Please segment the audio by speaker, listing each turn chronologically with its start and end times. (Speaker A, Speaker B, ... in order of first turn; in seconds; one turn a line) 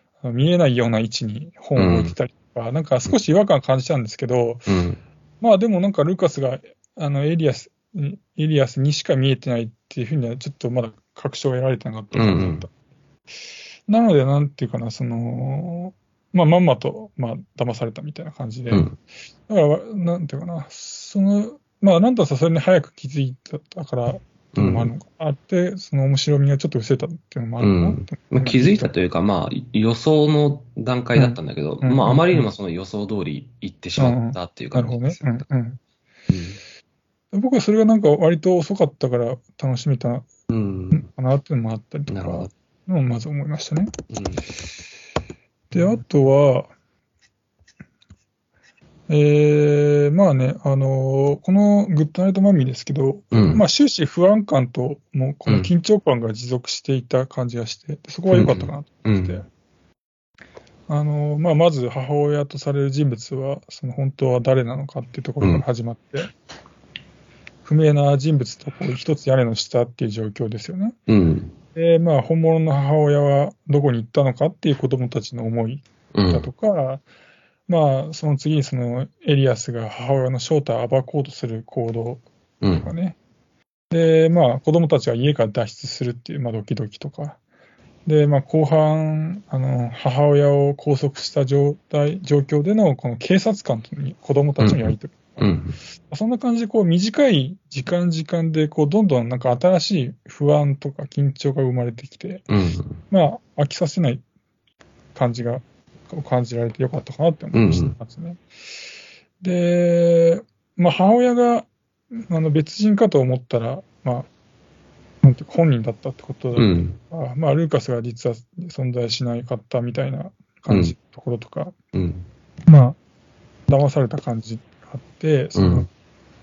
Speaker A: 0.2-4.7
Speaker B: 1.8-2.1
Speaker B: 4.7-5.0
Speaker A: 5.4-12.7
Speaker B: 12.1-12.7
Speaker A: 13.9-18.9
Speaker B: 18.7-19.0
Speaker A: 19.5-28.9
Speaker B: 24.5-24.9
Speaker B: 27.6-35.5
Speaker A: 31.1-32.5
Speaker A: 34.0-35.8
Speaker B: 36.3-36.6
Speaker A: 37.3-40.3
Speaker B: 40.5-41.1
Speaker A: 40.9-43.9
Speaker B: 42.1-42.5
Speaker B: 44.1-44.5
Speaker A: 45.7-46.7
Speaker A: 49.1-59.5
Speaker B: 53.3-53.6
Speaker B: 58.3-59.4
Speaker A: 60.9-66.3
Speaker A: 67.6-71.0
Speaker B: 71.1-71.5
Speaker A: 71.7-77.0
Speaker B: 76.1-76.5
Speaker A: 77.7-82.2
Speaker B: 82.6-82.9
Speaker A: 82.7-83.2
Speaker A: 83.9-87.4
Speaker A: 88.0-95.5
Speaker B: 94.6-95.8
Speaker A: 96.1-102.5
Speaker B: 102.5-103.0
Speaker A: 103.1-104.2
Speaker A: 105.1-108.4
Speaker B: 107.5-108.0
Speaker A: 109.4-111.7
Speaker A: 112.3-114.3
Speaker A: 115.2-121.7
Speaker B: 116.5-117.0
Speaker B: 120.7-120.9
Speaker B: 121.9-122.2
Speaker A: 122.7-123.0
Speaker A: 123.7-125.9
Speaker B: 125.5-125.9